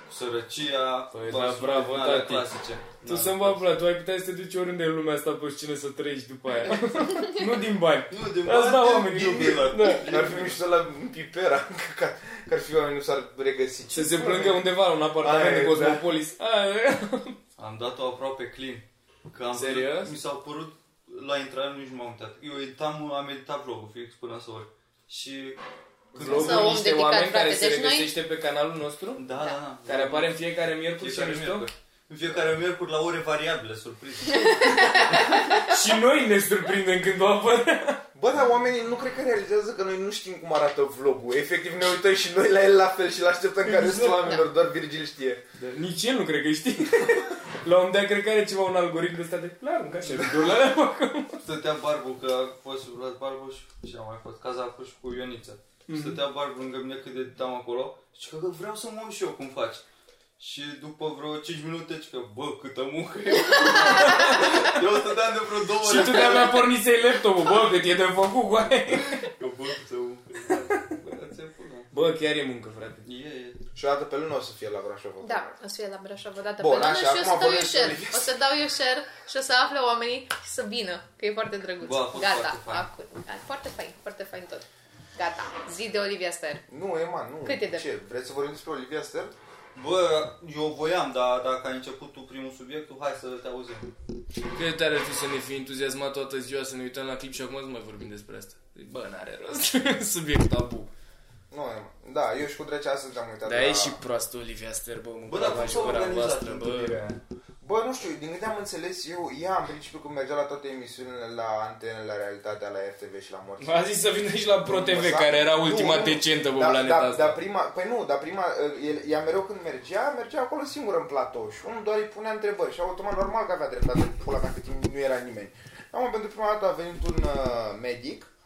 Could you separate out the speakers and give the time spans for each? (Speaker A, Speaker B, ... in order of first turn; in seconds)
Speaker A: 0.1-3.6, 8.1-10.6, 15.2-16.0, 17.6-25.6, 26.1-26.8, 29.2-30.3, 31.0-35.4, 51.4-59.8, 60.4-66.6, 68.9-71.9, 73.0-73.6, 81.8-82.8, 89.7-93.9, 105.3-107.2
Speaker B: 1.1-2.5, 3.0-10.1, 13.9-17.4, 19.5-20.1, 26.1-29.2, 29.8-31.7, 35.3-38.0, 43.6-44.5, 45.6-51.4, 55.9-56.2, 63.8-64.8, 65.8-69.3, 71.9-73.1, 94.5-100.9, 103.4-107.0, 113.6-117.4
Speaker C: 9.8-14.6, 38.1-45.4, 73.8-75.5, 76.6-78.3, 86.7-89.3, 101.5-104.0, 107.6-113.8, 114.6-128.3
Speaker D: 26.2-28.1, 34.3-35.6, 65.9-66.5, 75.2-86.6, 87.4-87.8